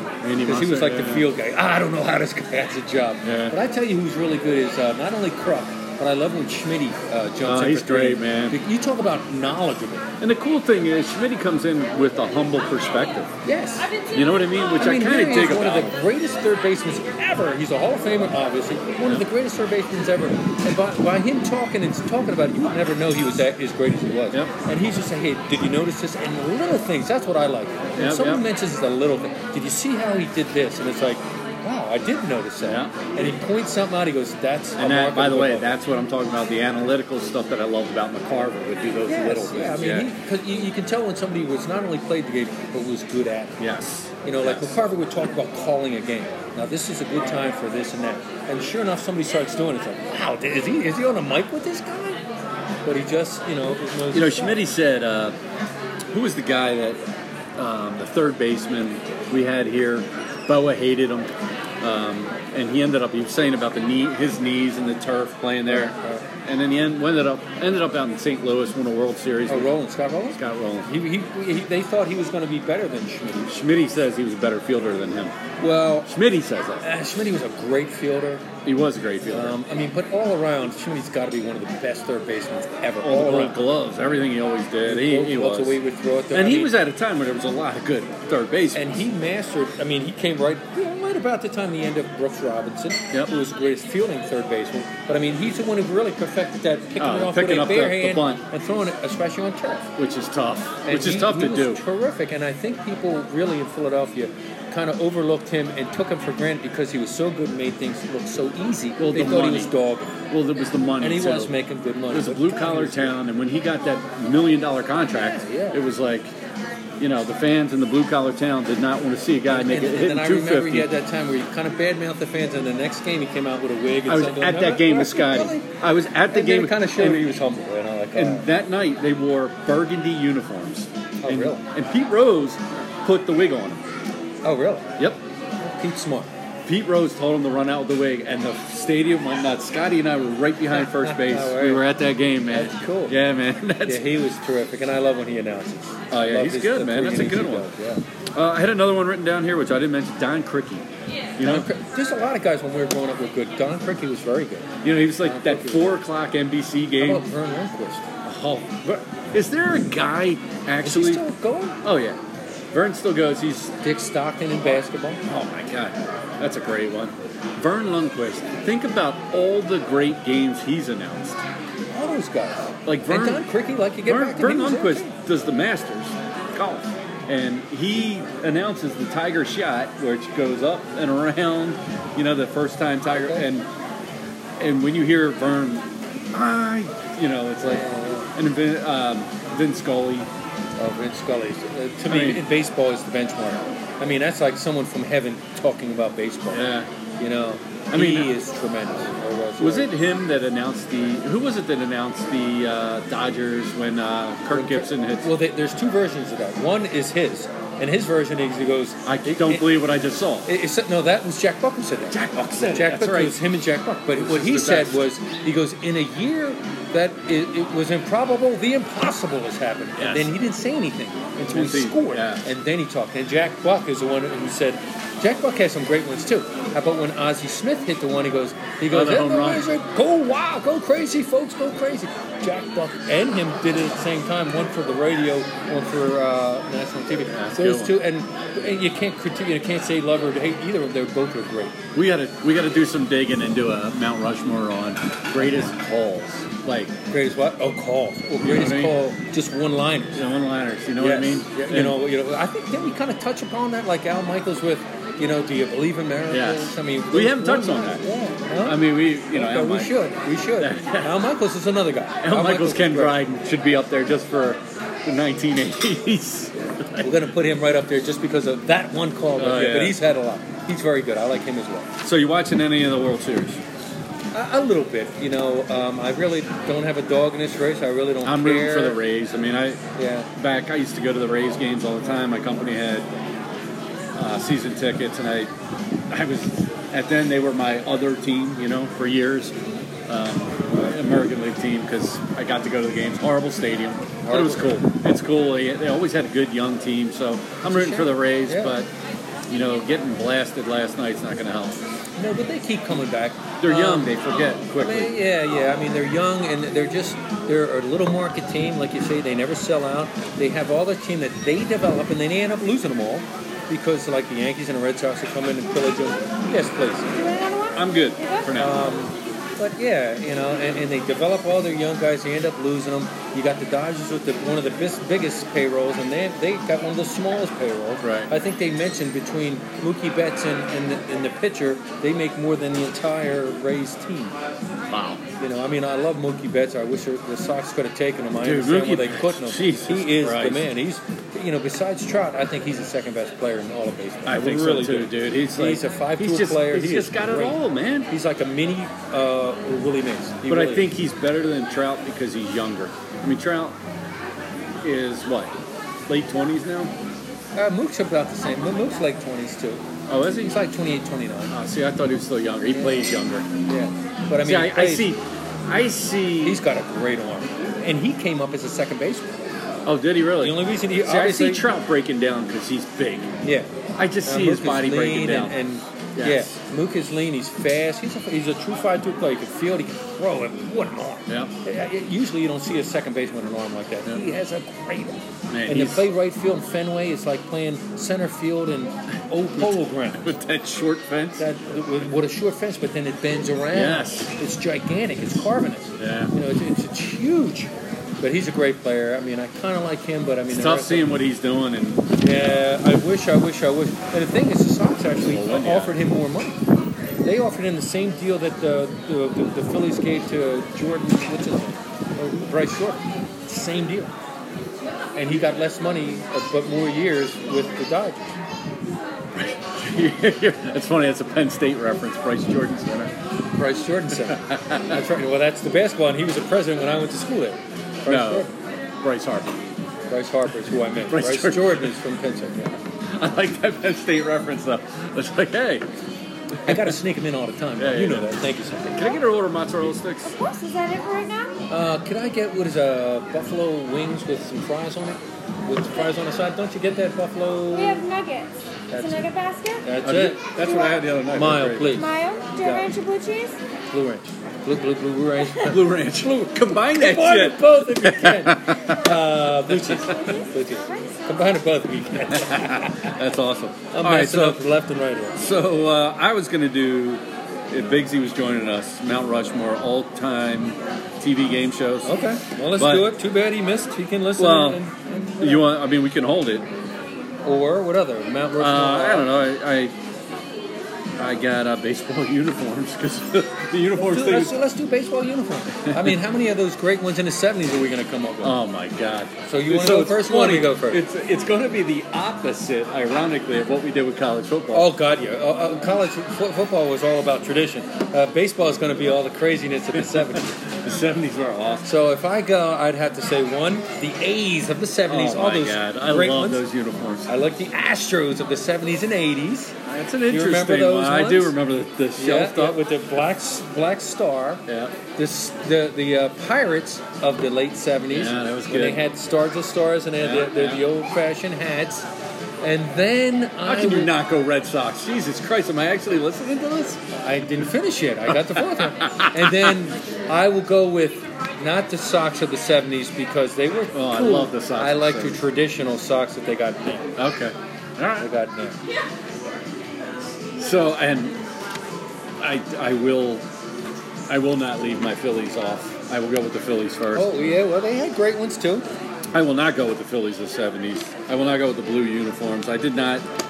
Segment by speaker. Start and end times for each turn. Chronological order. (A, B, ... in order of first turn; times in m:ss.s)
0:00.2-0:01.3 A
0:00.4-0:10.0 B
0:03.2-0:03.6 A
0:07.4-0:08.6 A
0:10.2-0:13.3 A
0:13.4-0:13.9 B
0:14.1-0:16.0 A
0:14.7-0:35.7 B
0:28.0-0:28.4 A
0:32.6-0:33.3 A
0:34.8-0:40.1 A
0:39.0-0:43.6 B
0:43.6-0:44.8 A
0:44.2-0:52.2 B
0:52.8-0:54.6 B
0:54.1-0:55.4 A
0:56.1-0:57.0 A
0:57.6-1:09.7 A
1:05.7-1:06.2 B
1:09.5-1:13.6 B
1:10.3-1:10.9 A
1:13.5-1:15.4 A
1:15.6-1:16.1 B
1:16.0-1:16.9 A
1:16.8-1:18.5 B
1:18.6-1:19.6 A
1:19.3-1:23.6 B
1:23.0-1:25.8 A
1:24.8-1:26.7 B
1:26.3-1:28.8 A
1:28.7-1:39.9 B
1:37.0-1:38.4 A
1:40.0-1:41.8 A
1:40.8-1:50.2 B
1:49.0-1:49.7 A
1:50.3-1:51.5 A
1:51.0-1:53.1 B
1:52.1-1:56.3 A
1:55.2-1:55.8 B
1:57.0-2:00.9 A
1:59.5-2:05.7 B
2:04.0-2:07.3 A
2:06.3-2:08.5 B
2:08.1-2:13.8 A
2:11.2-2:11.6 B
2:14.4-2:14.9 B
2:15.6-2:16.3 B
2:16.6-2:24.0 A
2:20.7-2:21.8 B
2:22.5-2:23.2 B
2:23.8-2:28.0 B
2:26.1-2:27.7 A
2:28.3-2:30.8 A
2:31.4-2:31.7 A
2:31.4-2:36.0 B
2:34.8-2:37.2 A
2:37.0-2:38.1 B
2:38.2-2:41.2 A
2:40.8-2:41.8 B
2:41.8-2:42.2 A
2:42.7-2:43.7 A
2:43.8-2:45.2 B
2:45.2-2:51.4 A
2:51.9-2:55.1 B
2:52.8-2:53.5 A
2:54.0-3:03.7 A
3:03.1-3:03.4 B
3:04.6-3:10.3 A
3:07.6-3:08.3 B
3:10.8-3:16.7 B
3:12.1-3:12.4 A
3:16.5-3:16.9 A
3:17.2-3:19.9 B
3:17.9-3:18.3 A
3:19.6-3:25.3 A
3:24.5-3:29.8 B
3:29.0-3:30.5 A
3:30.4-4:01.8 B
3:32.1-3:33.4 A
3:34.1-3:35.1 A
3:40.0-3:40.3 A
3:41.5-3:42.4 A
3:48.9-3:49.6 A
3:57.2-3:57.9 A
4:01.9-4:06.9 A
4:05.4-4:05.6 B
4:07.1-4:10.2 B
4:08.4-4:09.0 A
4:10.1-4:12.0 A
4:11.0-4:23.2 B
4:16.3-4:18.0 A
4:18.6-4:19.9 A
4:20.6-4:21.2 A
4:22.2-4:27.1 A
4:27.0-4:31.9 B
4:29.4-4:30.0 A
4:32.0-4:33.6 A
4:34.3-4:39.0 B
4:38.2-4:39.8 A
4:40.0-4:40.3 B
4:40.3-4:43.1 A
4:44.2-4:45.5 A
4:46.1-4:49.5 A
4:50.1-4:58.9 A
4:54.2-4:54.8 B
4:57.6-4:58.8 B
4:59.5-5:01.8 A
5:02.2-5:04.2 B
5:03.6-5:05.2 A
5:04.7-5:17.1 B
5:17.1-5:18.6 C
5:17.8-5:18.9 A
5:18.5-5:34.4 B
5:28.0-5:28.3 A
5:34.9-5:35.2 A
5:35.4-5:50.9 B
5:38.4-5:40.6 A
5:44.2-5:48.1 A
5:50.4-5:53.8 A
5:54.8-5:55.5 A
5:56.1-5:56.9 A
5:57.5-6:01.5 B
6:00.1-6:00.5 A
6:01.5-6:03.4 A
6:02.7-6:03.1 B
6:03.7-6:05.1 B
6:04.4-6:06.6 A
6:06.4-6:09.5 B
6:09.8-6:13.3 A
6:10.4-6:11.6 B
6:13.4-6:13.7 B
6:14.0-6:15.6 A
6:14.2-6:30.3 B
6:16.1-6:16.5 A
6:25.5-6:26.1 A
6:29.6-6:31.4 A
6:31.4-6:41.1 B
6:33.7-6:34.3 A
6:36.0-6:36.3 A
6:40.5-6:42.6 A
6:42.2-6:46.6 B
6:45.2-6:46.0 A
6:47.2-6:54.1 B
6:55.1-6:58.3 B
6:59.4-7:03.1 A
7:03.6-7:08.5 B
7:04.1-7:05.0 A
7:08.1-7:08.5 A
7:09.0-7:09.6 A
7:10.1-7:12.8 B
7:11.0-7:11.9 A
7:13.1-7:15.8 A
7:16.5-7:17.0 A
7:16.6-7:19.2 B
7:17.8-7:18.3 A
7:18.9-7:20.3 A
7:20.2-7:21.6 C
7:21.7-7:28.0 B
7:27.7-7:29.9 C
7:28.9-7:29.2 B
7:29.8-7:30.5 B
7:30.0-7:32.0 A
7:30.6-7:31.0 C
7:31.3-7:32.1 B
7:31.9-7:33.6 C
7:32.6-7:32.9 A
7:33.9-7:43.1 B
7:35.6-7:40.3 A
7:39.9-7:41.1 C
7:42.3-7:44.6 A
7:43.9-7:45.4 B
7:45.4-7:52.2 A
7:52.0-7:55.6 B
7:52.8-7:53.1 A
7:54.4-7:54.8 A
7:55.4-7:56.7 A
7:57.4-7:59.3 B
7:58.6-7:59.9 A
8:01.2-8:04.5 A
8:04.0-8:08.6 B
8:05.8-8:06.1 A
8:08.4-8:14.9 A
8:09.5-8:11.0 B
8:14.7-8:20.5 B
8:20.0-8:21.9 A
8:21.8-8:26.6 B
8:25.1-8:27.3 A
8:27.3-8:29.7 B
8:29.8-8:32.8 A
8:30.3-8:31.6 B
8:32.2-8:34.6 B
8:34.7-8:35.0 A
8:35.1-8:42.1 B
8:38.1-8:39.0 A
8:40.2-8:40.8 A
8:42.6-8:44.1 B
8:43.6-8:47.0 A
8:47.1-8:57.1 B
8:48.7-8:49.8 A
8:53.9-8:55.4 A
8:57.2-8:58.3 A
8:58.2-8:58.8 B
9:00.6-9:01.4 A
9:02.4-9:03.4 A
9:04.3-9:07.3 A
9:07.1-9:08.9 B
9:09.3-9:13.2 A